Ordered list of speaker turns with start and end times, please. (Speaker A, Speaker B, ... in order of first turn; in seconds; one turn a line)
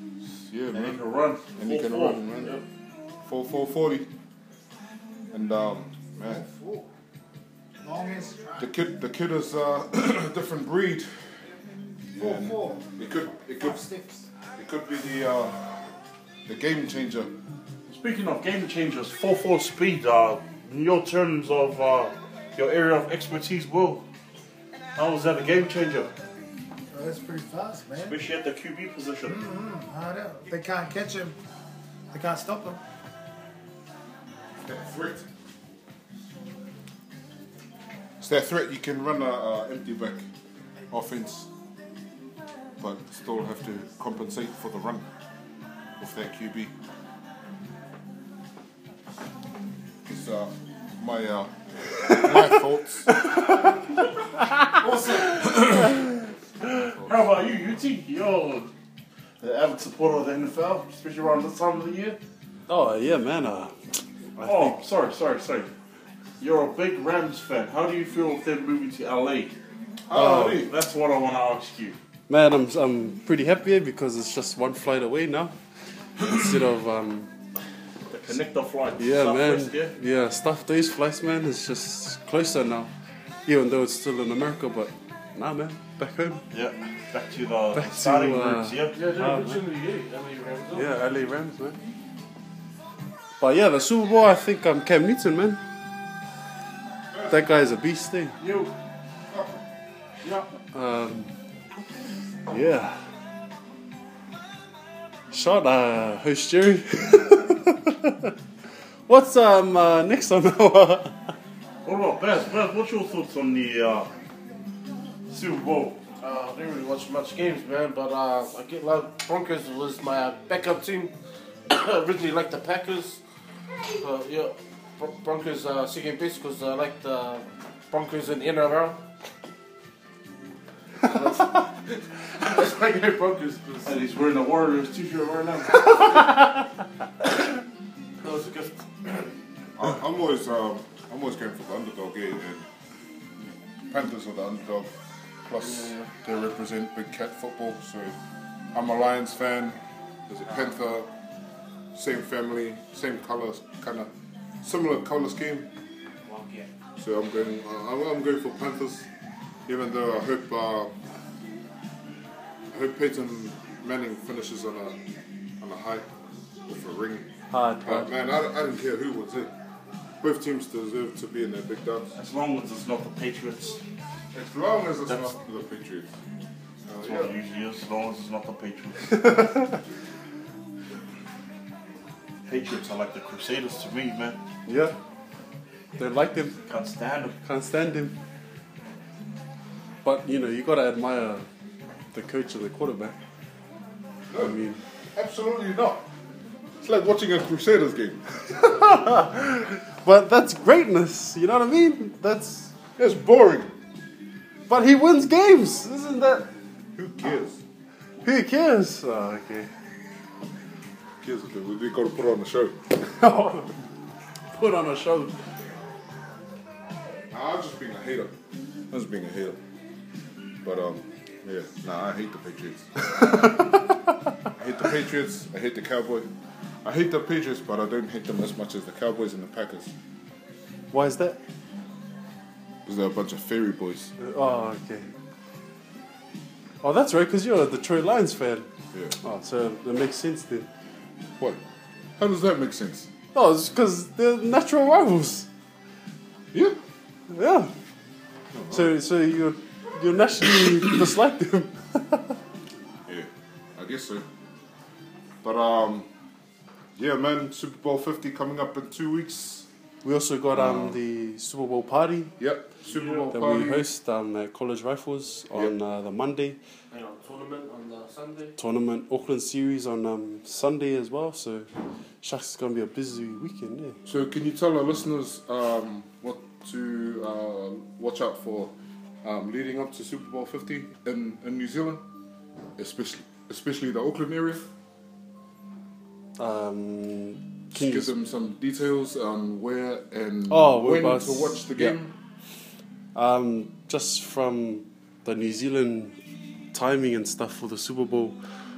Speaker A: 0.5-1.0
Speaker B: 0.7-2.6
Speaker A: 1.6-2.6
Speaker A: 3.2-4.1
Speaker A: 5.3-6.5
Speaker C: 6.2-6.9
Speaker C: 7.8-8.7
Speaker A: 8.6-11.1
Speaker C: 12.2-12.8
Speaker A: 12.2-13.8
Speaker C: 13.6-14.2
Speaker A: 14.6-15.9
Speaker A: 16.4-17.3
Speaker B: 17.9-24.0
Speaker B: 24.9-26.1
Speaker C: 26.9-28.2
Speaker B: 28.0-29.4
Speaker C: 29.2-31.4
Speaker C: 32.1-32.8
Speaker A: 34.6-35.3
Speaker A: 38.2-40.3
Speaker A: 40.9-41.5
Speaker A: 42.8-45.0
Speaker A: 46.0-46.7
Speaker A: 50.0-53.1
Speaker D: 53.1-53.7
Speaker D: 54.4-54.7
Speaker C: 54.8-55.6
Speaker D: 55.4-55.9
Speaker A: 55.5-55.9
Speaker B: 56.9-58.7
Speaker B: 59.4-62.2
Speaker D: 62.7-63.7
Speaker D: 64.4-64.8
Speaker B: 64.4-65.7
Speaker B: 66.4-69.5
Speaker A: 70.1-70.7
Speaker D: 70.1-70.6
Speaker B: 70.3-72.0
Speaker D: 72.3-75.5
Speaker D: 76.2-77.3
Speaker B: 78.1-79.9
Speaker D: 79.0-82.9
Speaker D: 83.5-86.5
Speaker B: 86.5-89.0
Speaker D: 87.7-89.6
Speaker E: 88.9-90.9
Speaker D: 90.7-91.8
Speaker D: 93.4-95.6
Speaker A: 97.1-97.4
Speaker D: 97.3-98.4
Speaker E: 98.4-98.7
Speaker A: 99.3-99.6
Speaker D: 100.7-101.3
Speaker D: 102.5-103.0
Speaker D: 105.3-108.3
Speaker D: 109.1-111.3
Speaker B: 111.8-114.1
Speaker B: 115.3-116.0
Speaker E: 116.2-121.1
Speaker E: 121.7-123.2
Speaker E: 124.0-129.0
Speaker E: 131.0-134.0
Speaker B: 133.8-136.2
Speaker E: 138.2-139.3
Speaker A: 139.8-142.7
Speaker A: 143.9-144.9
Speaker A: 145.4-148.2
Speaker E: 145.6-146.1
Speaker A: 148.7-151.1
Speaker A: 151.9-154.1
Speaker A: 154.6-155.7
Speaker E: 156.2-156.7
Speaker A: 157.0-159.1
Speaker A: 159.7-160.9
Speaker A: 162.7-165.0
Speaker A: 165.6-166.1
Speaker A: 166.7-167.3
Speaker D: 167.5-168.1
Speaker A: 167.8-169.5
Speaker A: 170.2-172.1
Speaker B: 172.2-173.8
Speaker A: 174.3-176.1
Speaker A: 176.9-177.3
Speaker B: 177.0-179.4
Speaker D: 179.1-179.8
Speaker B: 182.4-184.4
Speaker D: 184.7-184.9
Speaker D: 186.0-186.6
Speaker B: 186.7-187.4
Speaker D: 187.4-188.2
Speaker D: 190.0-191.4
Speaker D: 192.1-193.2
Speaker A: 194.3-194.6
Speaker D: 194.4-194.8
Speaker A: 195.1-196.1
Speaker A: 196.8-198.2
Speaker D: 198.6-202.7
Speaker A: 203.0-203.7
Speaker D: 204.7-206.5
Speaker A: 206.9-207.6
Speaker D: 208.2-209.7
Speaker A: 211.2-212.8
Speaker D: 213.0-213.8
Speaker D: 214.5-215.3
Speaker A: 217.3-218.3
Speaker A: 218.9-219.6
Speaker A: 220.6-223.7
Speaker A: 224.5-226.3
Speaker A: 226.8-229.9
Speaker D: 230.9-231.4
Speaker A: 232.8-234.1
Speaker D: 234.2-235.1
Speaker D: 236.8-238.7
Speaker D: 239.2-240.7
Speaker A: 242.2-243.1
Speaker D: 243.3-245.5
Speaker D: 247.3-247.7
Speaker A: 248.5-248.9
Speaker D: 248.7-252.3
Speaker A: 253.1-254.2
Speaker A: 255.4-256.1
Speaker A: 256.9-259.7
Speaker D: 260.0-262.3
Speaker A: 260.5-261.0
Speaker A: 262.4-263.9
Speaker D: 263.3-266.6
Speaker E: 266.9-268.5
Speaker D: 268.6-271.7
Speaker D: 272.2-274.0
Speaker A: 274.0-278.7
Speaker A: 279.2-282.0
Speaker A: 282.8-284.6
Speaker D: 286.4-288.1
Speaker A: 287.7-292.1
Speaker D: 290.5-292.0
Speaker D: 293.1-296.2
Speaker D: 296.7-298.4